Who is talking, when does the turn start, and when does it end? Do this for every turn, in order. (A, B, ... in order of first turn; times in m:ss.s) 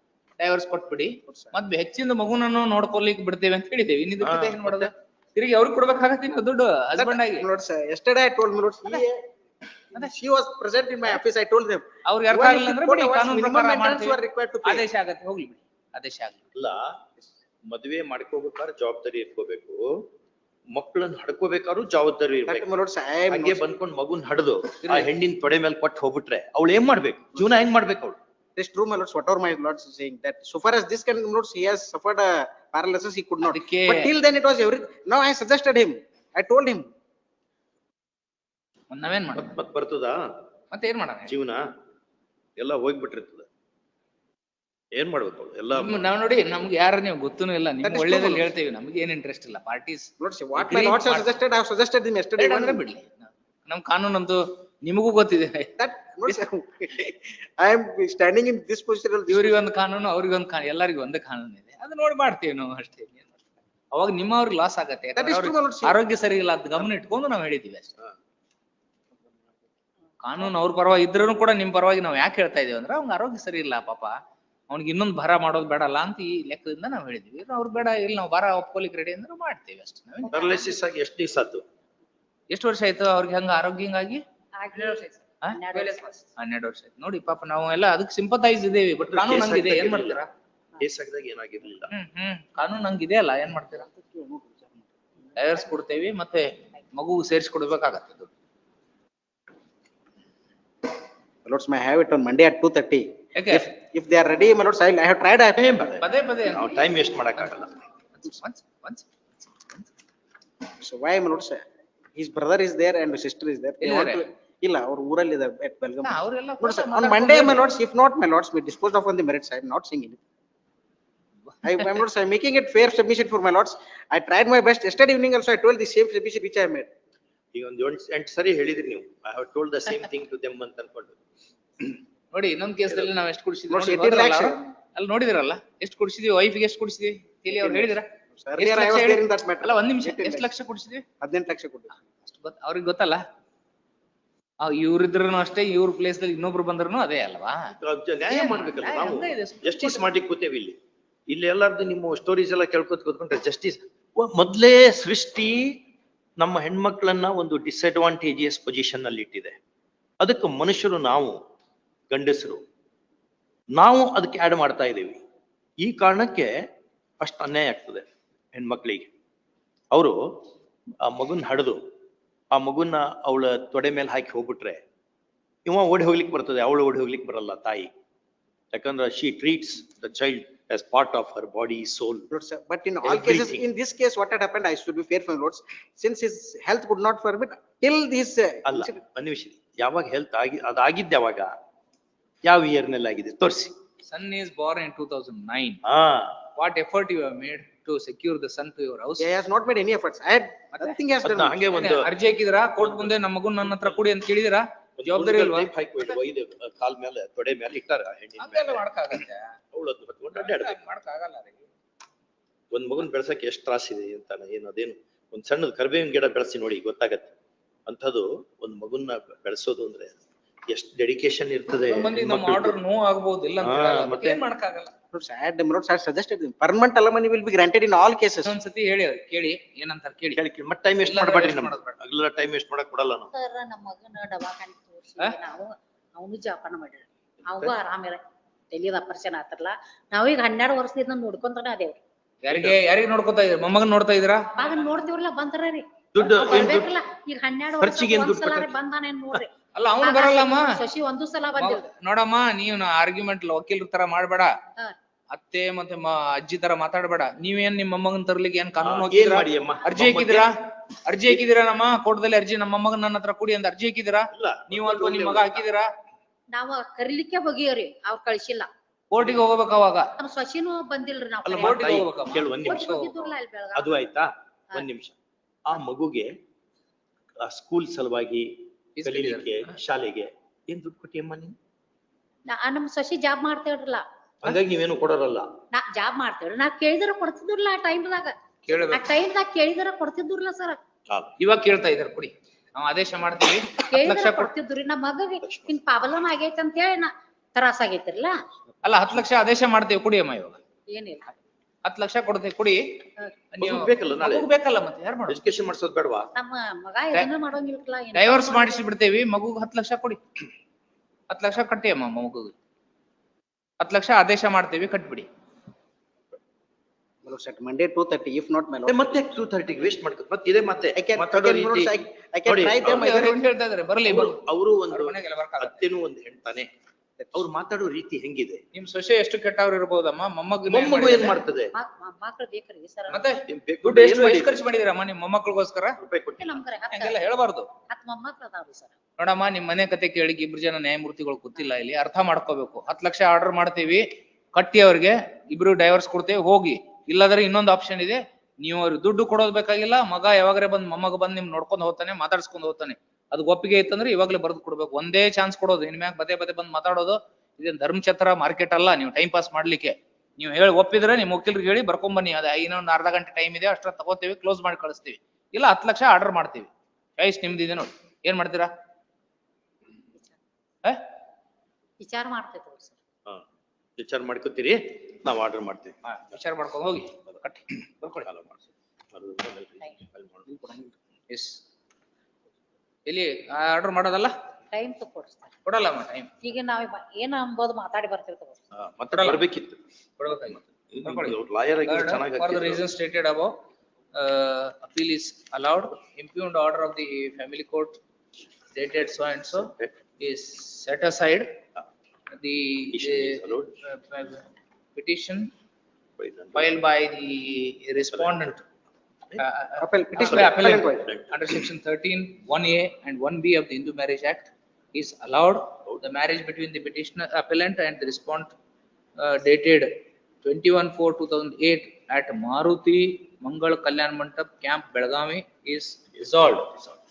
0:00.4-0:07.5 A
0:01.3-0:01.5 B
0:04.2-0:04.9 C
0:07.0-0:09.2 B
0:09.9-0:14.9 B
0:12.0-0:16.4 A
0:16.6-0:17.0 C
0:17.7-0:19.9 C
0:20.7-0:22.7 C
0:22.5-0:23.6 B
0:23.3-0:28.2 C
0:24.8-0:25.1 A
0:28.6-0:36.9 B
0:33.4-0:34.1 A
0:38.9-0:39.6 A
0:39.4-0:40.2 C
0:40.7-0:41.3 A
0:41.3-0:41.6 C
0:42.6-0:43.5 C
0:45.0-0:46.1 C
0:45.7-0:51.3 A
0:47.8-0:48.5 B
0:50.2-0:52.8 B
0:52.4-0:55.7 A
0:55.8-0:59.6 B
0:59.3-1:03.3 A
1:03.9-1:08.0 A
1:05.2-1:06.0 B
1:10.2-1:14.2 A
1:14.7-1:20.5 A
1:20.3-1:21.6 C
1:22.5-1:24.2 A
1:24.6-1:26.2 D
1:25.4-1:30.3 A
1:29.1-1:30.2 C
1:30.8-1:31.9 C
1:31.9-1:33.9 A
1:33.9-1:34.8 B
1:35.4-1:38.3 A
1:41.4-1:45.7 B
1:43.4-1:43.7 A
1:45.6-1:47.7 C
1:46.0-1:46.8 A
1:48.2-1:49.9 A
1:50.8-1:51.6 B
1:52.2-2:00.2 B
1:53.8-1:54.3 A
1:56.0-1:57.7 A
2:01.6-2:06.9 B
2:07.5-2:11.2 C
2:12.3-2:18.1 A
2:13.7-2:14.6 B
2:17.5-2:20.5 B
2:18.6-2:21.0 A
2:21.2-2:21.9 B
2:22.2-2:23.2 A
2:24.6-2:27.8 A
2:27.8-2:30.8 C
2:28.3-2:30.1 A
2:31.3-2:35.8 C
2:36.4-2:39.6 C
2:40.2-2:41.4 C
2:42.1-2:42.6 C
2:43.8-2:45.2 C
2:45.8-2:46.5 C
2:47.2-2:49.1 C
2:51.0-2:51.8 C
2:52.5-2:54.8 C
2:55.7-2:57.9 C
2:58.7-3:02.3 C
3:02.3-3:09.0 B
3:03.0-3:03.6 C
3:08.7-3:11.5 C
3:12.4-3:13.7 C
3:14.0-3:15.8 A
3:15.8-3:16.4 C
3:16.6-3:19.3 A
3:19.2-3:21.6 B
3:20.7-3:21.0 A
3:21.2-3:22.1 C
3:21.7-3:26.2 A
3:25.0-3:28.8 C
3:28.4-3:29.6 A
3:29.7-3:30.9 C
3:30.3-3:31.7 A
3:32.7-3:37.3 C
3:37.9-3:40.2 C
3:40.7-3:42.8 C
3:41.9-3:44.9 A
3:43.6-3:44.4 C
3:45.1-3:48.6 B
3:48.4-3:50.4 A
3:50.4-3:53.3 C
3:51.0-3:52.0 A
3:53.3-3:58.2 D
3:57.5-3:57.8 C
3:58.7-4:02.0 D
4:02.4-4:04.6 A
4:02.5-4:02.8 C
4:04.6-4:09.5 D
4:06.2-4:06.9 C
4:07.8-4:08.7 C
4:09.7-4:10.7 A
4:10.0-4:11.8 D
4:11.6-4:14.5 A
4:15.3-4:20.5 A
4:18.8-4:20.5 C
4:21.1-4:25.9 A
4:24.3-4:25.6 C
4:26.5-4:28.7 D
4:29.1-4:30.1 A
4:30.2-4:31.7 D
4:31.4-4:33.2 C
4:31.6-4:33.2 A
4:32.6-4:33.9 D
4:33.8-4:35.2 C
4:35.7-4:36.3 C
4:37.4-4:38.5 C
4:39.0-4:39.7 A
4:39.0-4:41.6 C
4:42.5-4:44.0 D
4:44.4-4:45.5 C
4:45.7-4:48.4 D
4:48.6-4:49.1 A
4:48.9-4:50.8 D
4:51.4-4:54.5 A
4:53.9-4:58.3 D
4:55.4-4:55.8 C
4:58.8-5:00.6 A
5:00.9-5:01.4 D
5:01.8-5:05.4 A
5:03.6-5:04.5 C
5:05.3-5:06.3 C
5:06.4-5:08.8 D
5:08.1-5:10.2 A
5:11.3-5:12.5 A
5:13.8-5:15.3 A
5:17.2-5:19.2 B
5:18.9-5:21.9 C
5:21.0-5:23.5 B
5:22.5-5:23.3 C
5:22.9-5:25.8 A
5:24.1-5:26.7 C
5:27.2-5:27.5 B
5:27.3-5:28.6 C
5:28.7-5:31.4 A
5:30.7-5:31.7 C
5:31.8-5:33.2 D
5:33.1-5:36.0 A
5:33.4-5:34.5 C
5:36.0-5:36.6 C
5:36.4-5:37.2 D
5:36.9-5:37.7 A
5:37.9-5:38.9 D
5:39.2-6:08.7 A
6:12.0-6:13.0 D
6:14.0-6:15.9 C
6:16.0-6:18.3 A
6:18.2-6:18.6 C
6:19.1-6:20.5 C
6:20.6-6:20.9 B
6:21.3-6:21.6 A
6:23.1-6:24.3 A
6:24.7-6:25.5 D
6:25.6-6:26.4 A
6:26.4-6:28.6 D
6:28.8-6:29.8 C
6:29.1-6:29.4 A
6:30.2-6:33.5 A
6:30.9-6:32.8 C
6:34.1-6:38.0 A
6:38.7-6:41.5 A
6:39.5-6:39.9 C
6:42.4-6:45.5 A
6:42.9-6:43.7 C
6:46.2-6:46.7 C
6:46.6-6:48.6 A
6:49.4-6:58.5 A
6:49.8-6:51.1 B
6:50.2-6:51.6 C
6:59.2-6:59.9 A
7:00.4-7:06.8 A